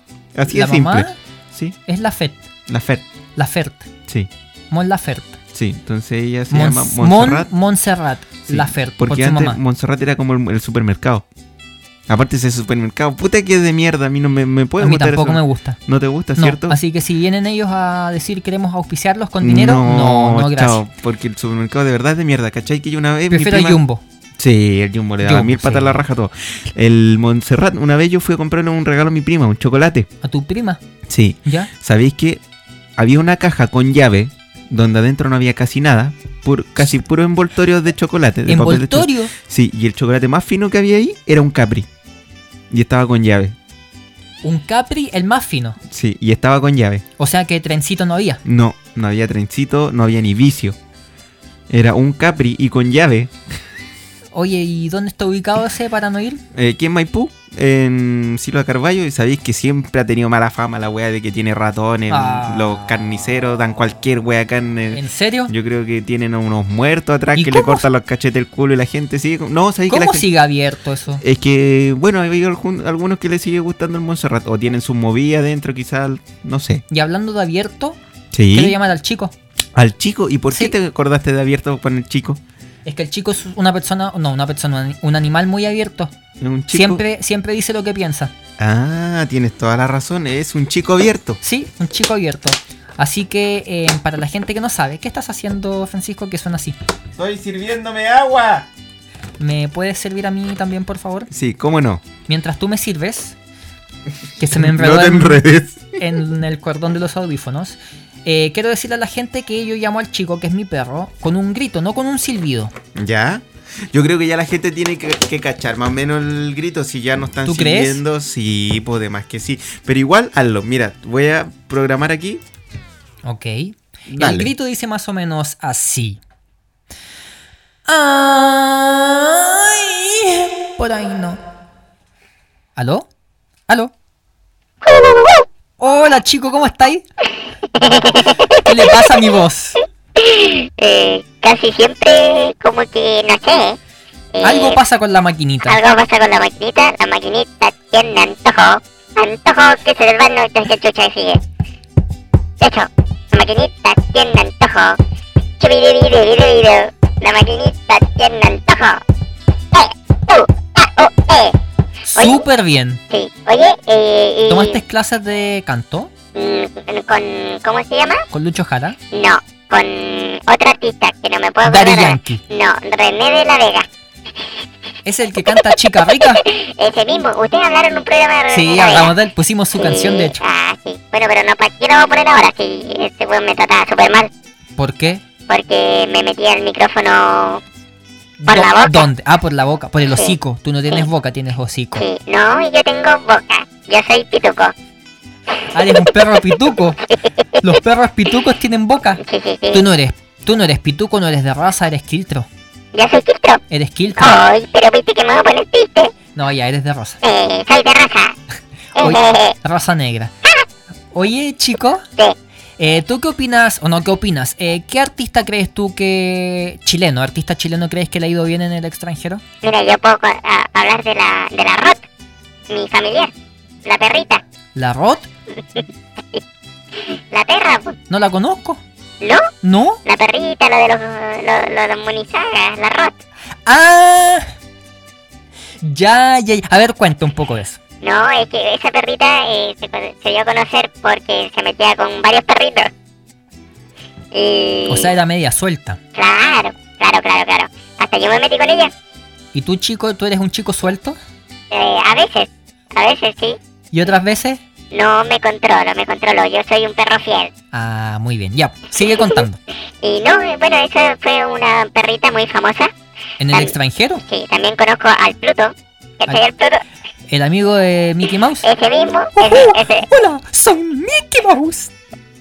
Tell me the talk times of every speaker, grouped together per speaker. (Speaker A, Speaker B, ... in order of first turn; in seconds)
Speaker A: 0.3-1.8, 2.7-3.0, 5.5-7.5, 8.5-11.3, 12.1-16.8, 19.4-23.8, 24.4-30.1, 31.1-32.4, 33.0-41.9, 42.7-43.6, 45.9-47.0, 48.5-50.8, 51.7-53.3, 56.5-70.3, 71.2-76.8, 78.3-78.8, 79.8-82.4, 86.4-87.0, 88.6-91.4, 97.2-98.7, 101.3-102.0, 104.5-106.0, 113.0-122.4, 124.1-124.5
Speaker B: 0.5-1.2, 1.9-2.4, 3.4-3.9, 4.7-5.4, 6.5-9.6, 14.8-15.8, 16.4-20.8, 23.3-24.0, 25.2-26.0, 30.2-30.8, 38.5-39.3, 44.4-45.8, 47.2-48.4, 54.3-56.4, 62.1-62.9, 64.9-65.5, 67.3-67.8, 69.9-71.2, 76.9-78.0, 78.5-79.3, 82.9-86.1, 86.7-88.3, 91.4-96.8, 99.4-101.3, 102.3-103.4, 104.4-105.4, 106.0-112.7, 117.5-118.0, 123.2-126.2, 127.9-131.4, 132.8-133.1, 135.8-137.0, 138.6-139.8, 144.4-145.8, 162.1-163.0, 164.5-166.1, 168.3-169.0, 171.6-172.4, 175.1-176.4, 178.5-180.4, 184.8-185.2, 188.4-192.1, 195.7-197.0, 197.6-199.2, 199.7-202.5, 203.7-204.4, 206.4-207.2, 209.0-210.3, 211.1-212.0, 212.8-219.4, 224.8-225.3, 228.1-228.8, 229.6-230.0, 233.7-234.5, 235.8-237.8, 244.9-246.0, 249.5-251.2, 253.9-254.6, 257.7-259.6, 263.4-264.2, 267.3-268.7, 269.4-271.9
Speaker C: 134.9-135.4, 137.8-138.8, 140.2-143.8, 144.3-144.8, 145.7-151.4, 152.6-155.0, 155.6-159.0, 159.7-161.6, 162.2-162.4, 163.1-164.8, 166.3-168.2, 169.1-173.9, 176.3-179.1, 179.8-184.3, 185.5-187.6, 188.5-189.1, 192.0-194.7, 199.2-199.9, 202.9-203.6, 204.2-206.1, 207.2-208.4, 209.0-209.6, 219.6-222.1, 222.7-223.3, 223.8-224.4, 227.0-228.0, 229.2-229.5, 230.1-233.2, 238.0-242.9, 244.3-245.1, 246.2-248.9, 251.7-253.6, 254.9-257.5, 260.0-262.9, 263.5-266.8, 268.6-270.1